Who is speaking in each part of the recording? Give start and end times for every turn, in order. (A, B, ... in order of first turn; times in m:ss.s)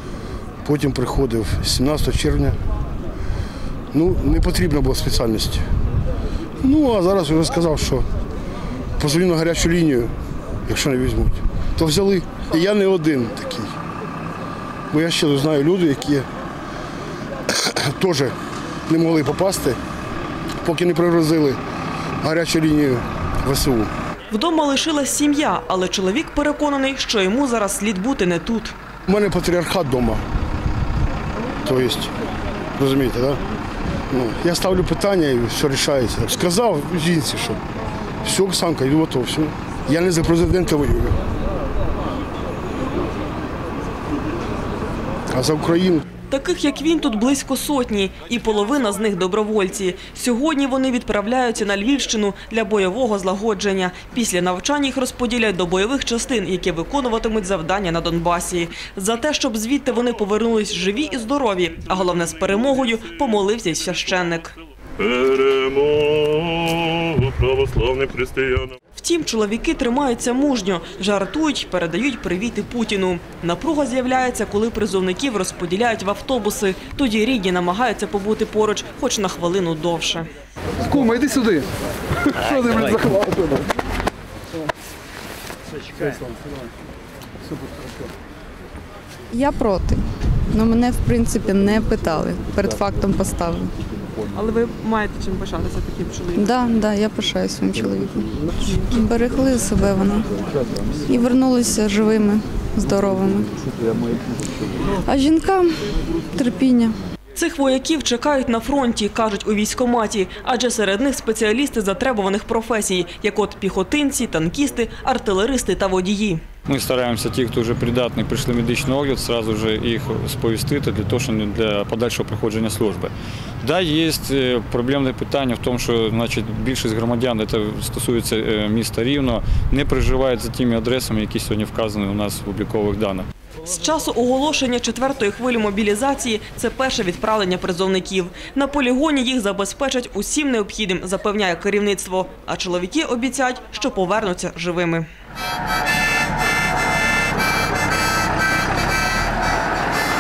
0:00.6-0:02.6 A
0:03.9-0:05.7 A
0:06.6-0:08.1 A
0:09.0-0:10.1 A
0:10.7-0:13.7 A
0:14.9-0:16.2 A
0:17.5-0:18.3 A
0:18.9-0:19.8 A
0:20.6-0:21.6 A
0:22.2-0:23.9 A
0:24.3-0:28.7 B
0:29.1-0:30.2 A
0:31.6-0:32.1 A
0:32.8-0:33.4 A
0:34.1-0:37.6 A
0:38.2-0:41.2 A
0:45.3-0:46.0 A
0:46.3-1:04.5 B
1:05.0-1:08.7 C
1:08.9-1:20.3 B
1:20.8-1:21.7 D
1:22.2-1:23.7 D
1:25.9-1:26.2 D
1:29.3-1:33.7 E
1:34.3-1:36.5 B
1:36.4-1:40.3 E
1:41.0-1:43.5 E
1:44.9-1:45.8 E
1:46.3-1:47.0 E
1:47.3-1:56.4 B
1:56.6-2:03.1 F
2:03.6-2:13.3 F
2:13.6-2:25.0 B